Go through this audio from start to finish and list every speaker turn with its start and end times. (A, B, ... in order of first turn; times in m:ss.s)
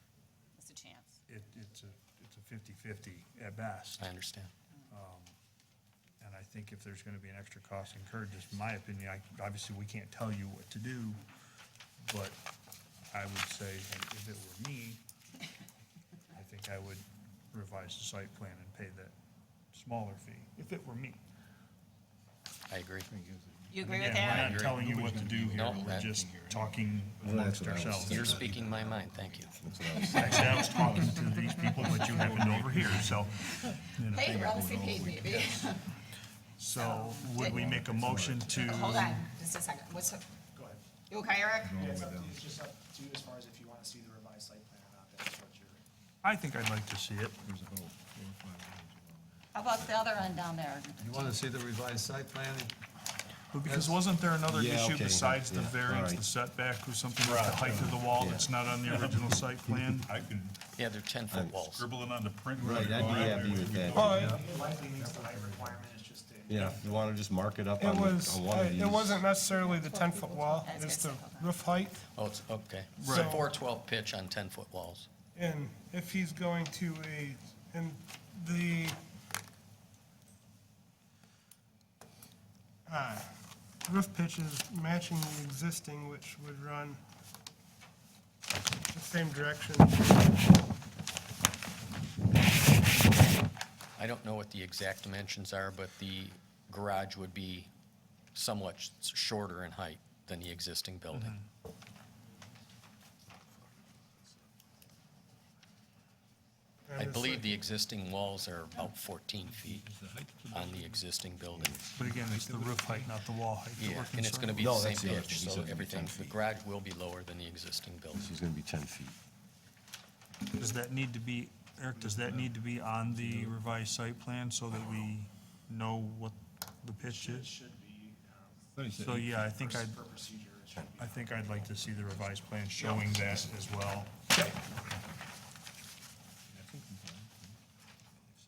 0:00.6-0:01.2 A
0:01.3-0:04.0 B
0:04.0-0:04.5 C
0:04.9-0:05.4 B
0:06.2-0:11.2 B
0:12.0-0:12.4 B
0:13.1-0:15.0 B
0:16.3-0:19.1 B
0:19.7-0:21.2 B
0:22.7-0:23.1 C
0:23.1-0:24.2 D
0:23.7-0:24.6 A
0:23.9-0:28.5 B
0:24.2-0:26.2 C
0:25.0-0:25.8 D
0:27.2-0:28.5 E
0:28.0-0:29.5 C
0:29.6-0:30.7 E
0:29.9-0:30.9 A
0:30.1-0:34.4 B
0:31.5-0:33.3 F
0:31.7-0:32.1 A
0:33.6-0:35.9 A
0:34.2-0:35.5 F
0:36.6-0:39.3 B
0:36.8-0:37.8 A
0:37.5-0:38.7 E
0:38.5-0:40.2 A
0:40.5-0:40.8 G
0:41.1-0:41.8 A
0:41.6-0:45.8 G
0:46.2-0:47.4 B
0:47.4-0:49.3 D
0:49.5-0:51.5 A
0:51.0-0:52.7 D
0:53.5-1:00.1 B
0:53.6-0:54.0 D
0:54.5-0:56.2 E
0:57.2-1:00.8 F
0:58.2-0:58.5 E
1:00.7-1:01.9 C
1:01.3-1:01.6 E
1:01.6-1:04.5 F
1:02.6-1:04.2 E
1:03.9-1:04.4 H
1:04.1-1:04.4 B
1:04.2-1:06.8 G
1:04.6-1:05.7 D
1:06.5-1:09.2 E
1:07.8-1:12.0 H
1:09.5-1:11.5 A
1:12.1-1:15.1 C
1:13.0-1:13.4 B
1:13.0-1:13.5 H
1:15.3-1:19.0 H
1:22.9-1:27.0 H
1:28.9-1:30.3 H
1:34.0-1:37.7 C
1:38.3-1:41.4 C
1:41.1-1:41.4 B
1:46.8-1:47.6 H
1:46.9-1:49.9 C
1:50.1-1:50.5 D
1:50.5-1:51.8 C
1:51.9-1:54.8 B
1:52.2-1:53.0 D
1:53.8-1:58.3 C
1:54.6-1:56.4 E
1:58.2-1:59.2 E
2:00.6-2:07.5 B
2:07.0-2:13.3 G
2:08.7-2:09.2 E
2:08.9-2:10.0 B
2:11.0-2:14.2 B
2:16.8-2:17.4 D